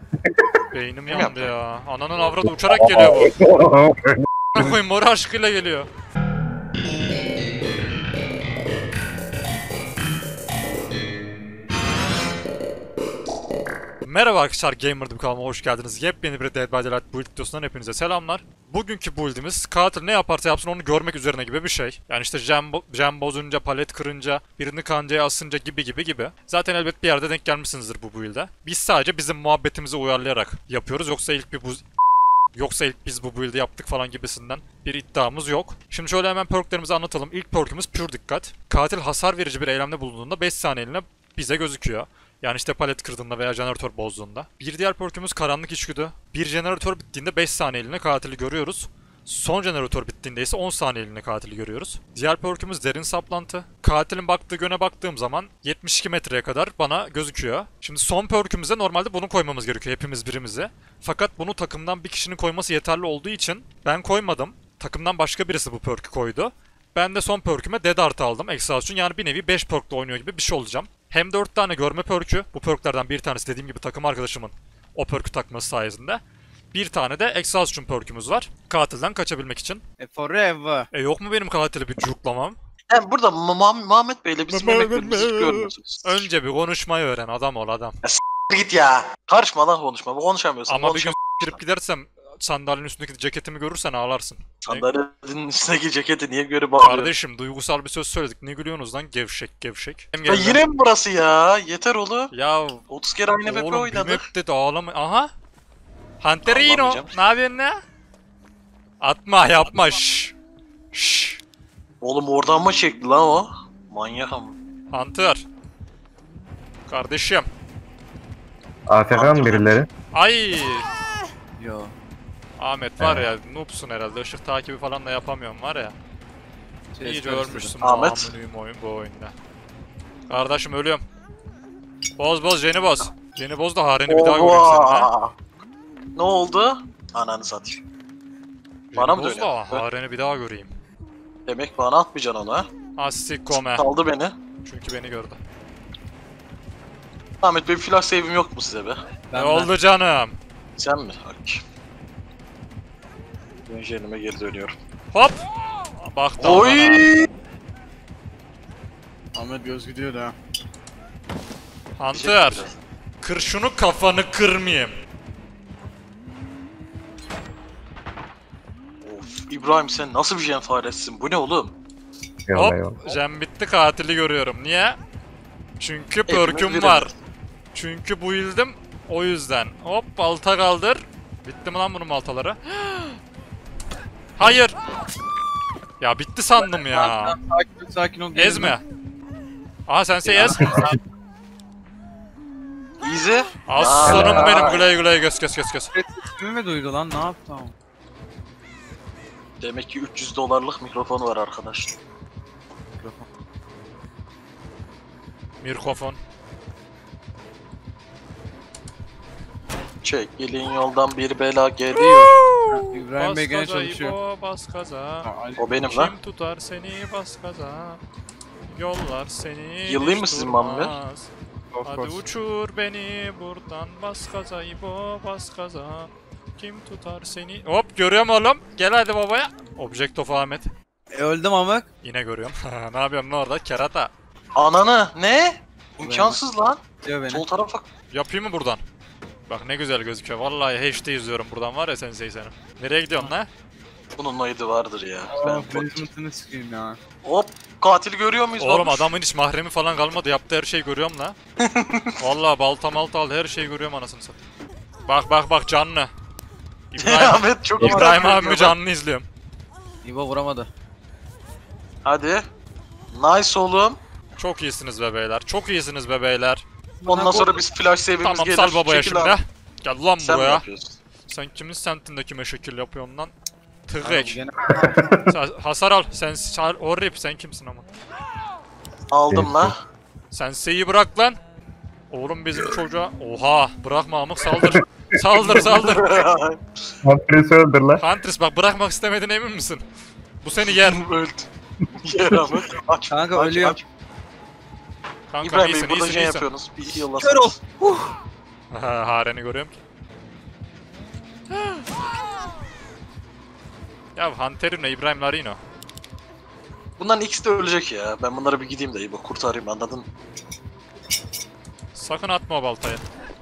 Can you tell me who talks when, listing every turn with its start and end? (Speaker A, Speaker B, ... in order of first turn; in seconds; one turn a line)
Speaker A: 0.2-0.6
Speaker B: 0.7-3.3
Speaker C: 1.1-1.5
Speaker A: 2.4-4.8
Speaker B: 4.5-5.9
Speaker B: 14.0-31.8
Speaker B: 32.5-76.2
Speaker B: 76.7-79.8
Speaker D: 80.0-80.9
Speaker B: 80.9-82.6
Speaker C: 82.9-86.2
Speaker B: 84.5-87.9
Speaker C: 88.0-91.6
Speaker B: 90.7-94.8
Speaker C: 94.6-97.1
Speaker B: 96.8-100.6
Speaker C: 100.2-102.3
Speaker B: 102.3-102.8
Speaker C: 102.9-104.2
Speaker B: 103.5-105.3
Speaker B: 106.2-107.8
Speaker C: 106.4-107.2
Speaker B: 109.0-110.3
Speaker B: 110.9-111.4
Speaker C: 112.0-114.5
Speaker B: 114.9-115.4
Speaker B: 116.9-117.5
Speaker A: 118.9-119.9
Speaker C: 119.1-119.8
Speaker B: 120.1-120.8
Speaker D: 121.6-121.9
Speaker B: 122.6-126.0
Speaker A: 123.0-123.3
Speaker D: 126.9-127.8
Speaker B: 127.0-129.3
Speaker C: 127.8-128.3
Speaker B: 130.3-131.0
Speaker B: 132.2-135.1
Speaker C: 134.1-135.3
Speaker C: 136.2-137.8
Speaker B: 138.9-140.7
Speaker C: 138.9-139.8
Speaker C: 141.4-142.7
Speaker B: 143.0-143.8
Speaker C: 143.5-144.3
Speaker B: 144.6-145.4
Speaker C: 147.4-149.0
Speaker D: 149.3-149.7
Speaker B: 149.3-150.3
Speaker C: 150.8-151.6
Speaker C: 153.7-154.7
Speaker B: 155.9-157.1
Speaker C: 156.4-157.3
Speaker D: 159.3-160.3
Speaker B: 162.0-162.6
Speaker C: 162.1-162.7
Speaker B: 163.2-164.9
Speaker C: 169.0-171.7
Speaker A: 172.5-173.0
Speaker B: 172.5-175.0
Speaker B: 175.8-177.1
Speaker C: 176.3-177.1
Speaker B: 177.7-183.2
Speaker B: 184.4-184.7
Speaker B: 186.0-187.4
Speaker D: 186.8-188.8
Speaker B: 188.3-188.8
Speaker B: 189.9-190.9
Speaker C: 190.2-190.8
Speaker C: 193.0-194.8
Speaker B: 193.7-195.9
Speaker A: 194.0-194.6
Speaker D: 195.9-197.7
Speaker C: 199.6-202.0
Speaker B: 205.6-206.2
Speaker C: 210.0-212.4
Speaker B: 211.9-215.3
Speaker D: 212.7-214.1
Speaker D: 215.2-215.7
Speaker C: 215.6-216.1
Speaker B: 215.8-218.0
Speaker B: 218.7-221.3
Speaker C: 219.8-220.9
Speaker D: 221.7-222.2
Speaker B: 221.8-230.7
Speaker D: 231.1-231.9
Speaker B: 232.0-234.1
Speaker C: 234.6-237.8
Speaker D: 236.0-236.4
Speaker D: 237.0-237.4
Speaker B: 238.1-238.8
Speaker B: 239.5-243.5
Speaker C: 244.2-246.1
Speaker D: 245.3-247.0
Speaker C: 247.2-249.1
Speaker B: 248.6-251.3
Speaker C: 251.6-252.1
Speaker B: 252.2-254.4
Speaker B: 255.1-256.1
Speaker B: 256.9-259.3
Speaker C: 257.0-258.8
Speaker D: 260.0-260.7
Speaker C: 262.0-262.4
Speaker C: 263.1-264.0
Speaker B: 264.4-266.6
Speaker D: 267.0-267.6
Speaker C: 267.1-269.4
Speaker B: 268.2-270.6
Speaker C: 270.2-271.0
Speaker B: 271.2-273.3
Speaker B: 273.9-274.4
Speaker D: 274.0-275.2
Speaker A: 275.0-275.3
Speaker B: 275.3-277.9
Speaker C: 279.1-279.8
Speaker A: 279.3-279.7
Speaker B: 280.3-281.4
Speaker B: 282.1-286.2
Speaker A: 284.5-284.8
Speaker C: 285.6-286.6
Speaker A: 287.0-288.0
Speaker B: 288.0-289.8
Speaker B: 290.4-291.0
Speaker C: 290.7-291.5
Speaker C: 292.0-293.8
Speaker D: 293.1-293.8
Speaker B: 295.3-296.5
Speaker C: 295.4-297.6
Speaker D: 297.2-298.1
Speaker B: 298.7-299.7
Speaker B: 304.1-305.6
Speaker C: 307.0-310.1
Speaker B: 311.9-313.0